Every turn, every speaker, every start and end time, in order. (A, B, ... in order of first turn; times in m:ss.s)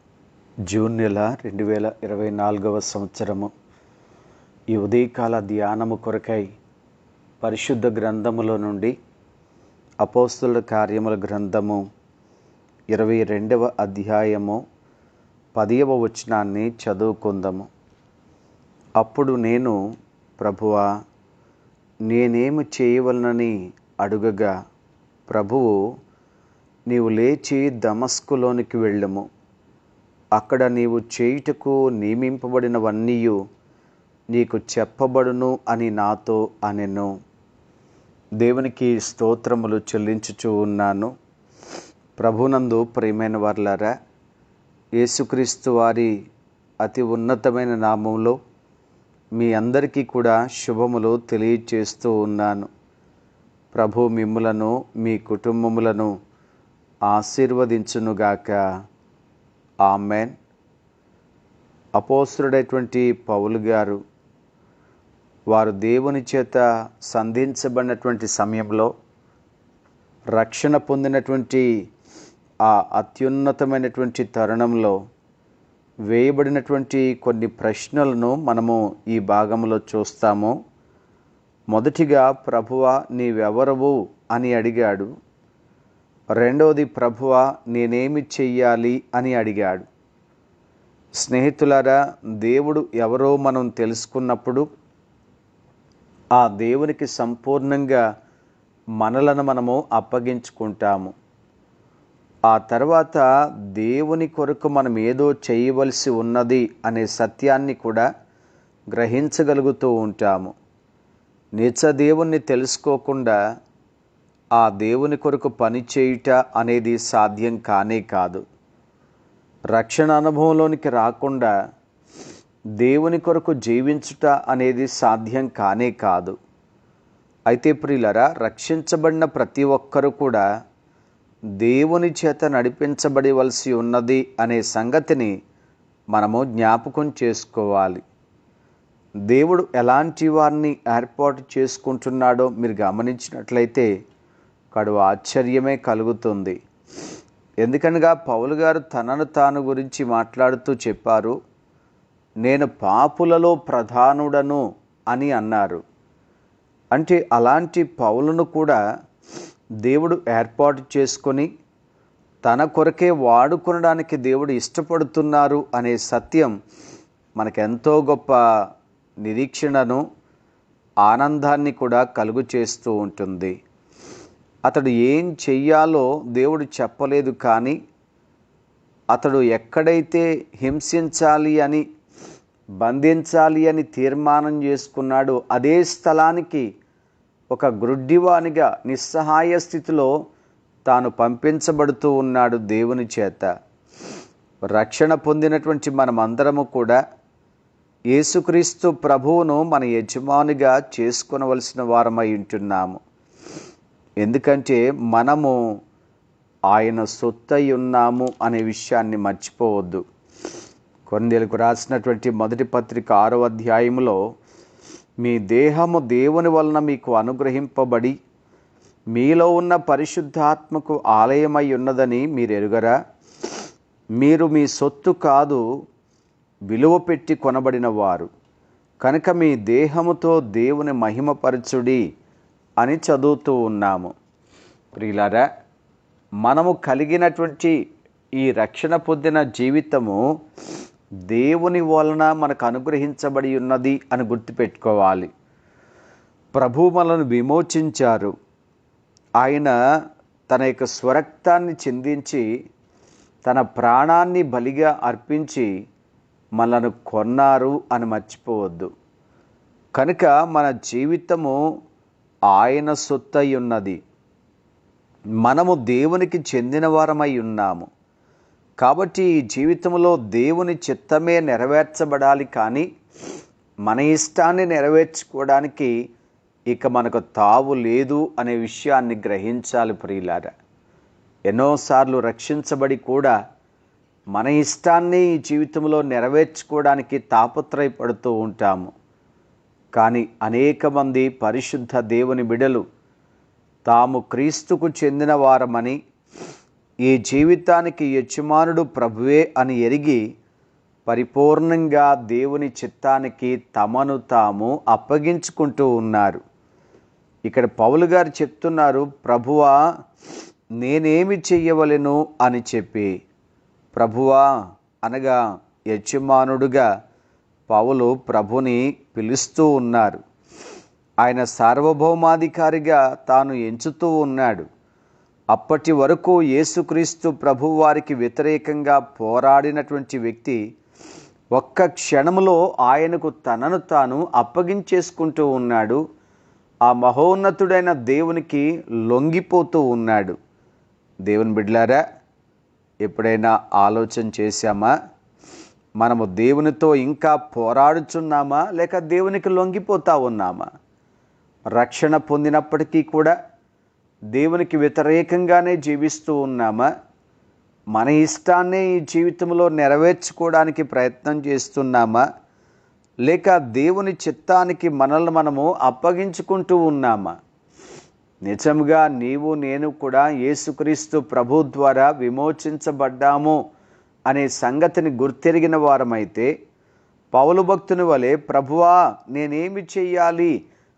0:00.7-0:03.5 A
0:04.7-0:06.5 A
0:07.4-0:08.9 A
0:10.0-0:11.8 A
0:12.9-0:14.6 A
0:15.5-0:17.7 A
0:19.0-0:19.8 A
0:20.4-0:20.8 A
0:22.1-0:24.5 A
0:25.3-0:25.8 A
0:26.9-0:29.2 A
0:30.3-0:33.4 A
0:34.3-0:37.1 A
0:38.4-0:41.1 A
0:42.2-0:43.9 A
0:45.0-0:46.1 A
0:46.8-0:48.4 A
0:49.4-0:52.7 A
0:53.7-0:56.1 A
0:57.1-0:58.6 A
0:59.8-1:00.3 A
1:02.0-1:04.0 A
1:05.5-1:08.9 A
1:10.3-1:11.6 A
1:12.6-1:15.0 A
1:16.1-1:20.5 A
1:21.7-1:25.1 A
1:26.4-1:29.8 A
1:31.2-1:34.6 A
1:36.4-1:38.0 A
1:39.0-1:41.1 A
1:42.5-1:48.0 A
1:48.9-1:50.5 A
1:51.6-1:53.4 A
1:54.6-1:58.4 A
1:59.7-2:01.5 A
2:02.8-2:06.3 A
2:07.5-2:10.4 A
2:11.6-2:15.3 A
2:16.1-2:18.0 A
2:19.3-2:23.8 A
2:24.7-2:26.6 A
2:27.6-2:31.3 A
2:32.4-2:35.8 A
2:36.9-2:38.8 A
2:39.8-2:41.5 A
2:42.4-2:46.5 A
2:47.4-2:48.4 A
2:49.2-2:50.0 A
2:51.0-2:53.5 A
2:54.7-2:57.8 A
2:59.1-3:01.8 A
3:02.8-3:06.6 A
3:07.5-3:10.1 A
3:10.8-3:13.5 A
3:14.7-3:17.0 A
3:18.1-3:23.0 A
3:24.2-3:25.6 A
3:26.7-3:30.0 A
3:31.1-3:34.2 A
3:35.2-3:38.1 A
3:39.1-3:42.9 A
3:44.2-3:45.6 A
3:46.7-3:48.3 A
3:49.0-3:52.0 A
3:52.8-3:54.1 A
3:55.0-3:55.4 A
3:56.4-3:57.7 A
3:58.4-4:00.2 A
4:01.3-4:05.3 A
4:06.5-4:08.3 A
4:09.4-4:09.7 A
4:10.5-4:12.4 A
4:13.4-4:15.7 A
4:16.6-4:18.9 A
4:19.9-4:21.6 A
4:22.5-4:24.0 A
4:25.4-4:27.9 A
4:28.8-4:32.8 A
4:33.8-4:35.9 A
4:36.7-4:40.5 A
4:41.5-4:43.3 A
4:44.3-4:48.9 A
4:49.9-4:52.8 A
4:53.9-4:56.0 A
4:57.0-5:00.2 A
5:01.1-5:06.4 A
5:07.5-5:09.7 A
5:10.8-5:13.1 A
5:13.9-5:14.4 A
5:15.0-5:15.4 A
5:15.9-5:16.8 A
5:17.7-5:20.2 A
5:21.2-5:24.6 A
5:25.5-5:30.6 A
5:31.5-5:36.0 A
5:36.8-5:40.3 A
5:41.3-5:42.0 A
5:43.0-5:44.9 A
5:46.0-5:50.6 A
5:51.7-5:53.3 A
5:54.3-5:56.9 A
5:57.9-6:02.2 A
6:03.2-6:07.3 A
6:08.5-6:13.6 A
6:14.3-6:16.5 A
6:17.3-6:20.5 A